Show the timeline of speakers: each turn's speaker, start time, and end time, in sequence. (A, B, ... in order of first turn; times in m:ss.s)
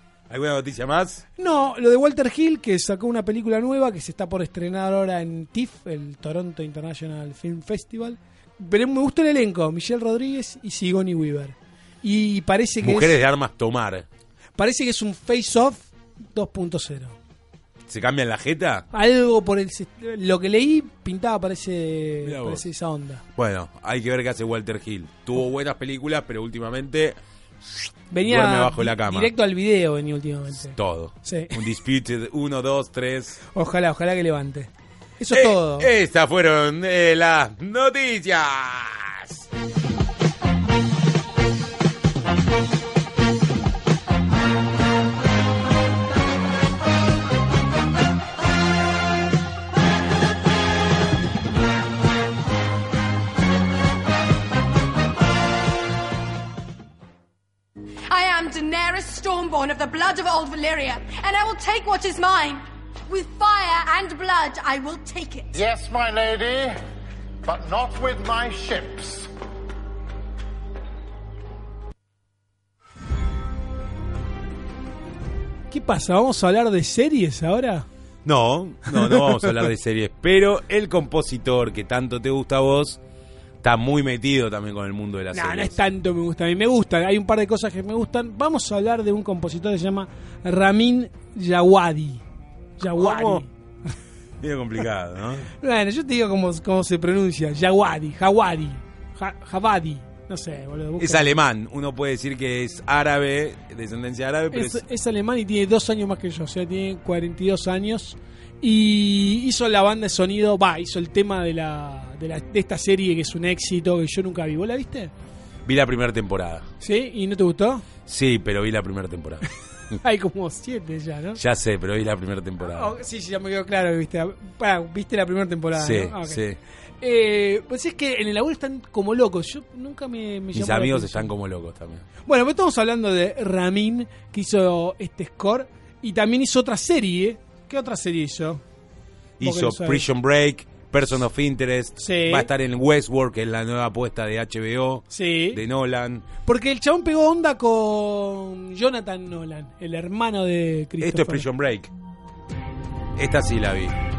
0:00.3-0:01.2 A
0:01.4-0:13.2 B
0:12.8-0:14.1 A
0:14.6-0:17.2 B
0:17.9-0:18.9 A
0:18.9-0:23.2 B
0:22.2-0:22.7 A
0:23.4-0:27.2 A
0:27.7-0:29.3 A
0:28.1-0:31.6 B
0:30.6-0:33.4 A
0:33.5-0:35.9 B
0:35.3-0:39.4 A
0:58.1-1:05.6 C
1:05.5-1:06.8 D
1:07.4-1:09.3 D
1:15.7-1:17.9 B
1:18.2-1:23.0 A
1:18.9-1:19.4 B
1:23.6-1:25.8 A
1:25.3-1:32.2 B
1:32.8-1:33.5 B
1:32.8-1:33.4 A
1:34.4-1:35.5 A
1:35.6-1:41.4 B
1:41.0-1:44.8 A
1:44.5-1:55.1 B
1:55.7-1:56.7 A
1:56.8-1:57.8 B
1:58.1-1:59.5 A
1:59.9-2:01.4 B
2:01.4-2:02.9 A
2:02.6-2:06.4 B
2:05.7-2:06.6 A
2:07.0-2:11.3 B
2:10.5-2:12.1 A
2:12.2-2:18.6 B
2:19.4-2:26.3 A
2:19.4-2:20.0 B
2:22.0-2:22.5 B
2:25.1-2:25.6 B
2:26.5-2:31.5 B
2:31.0-2:31.9 A
2:33.2-2:34.0 A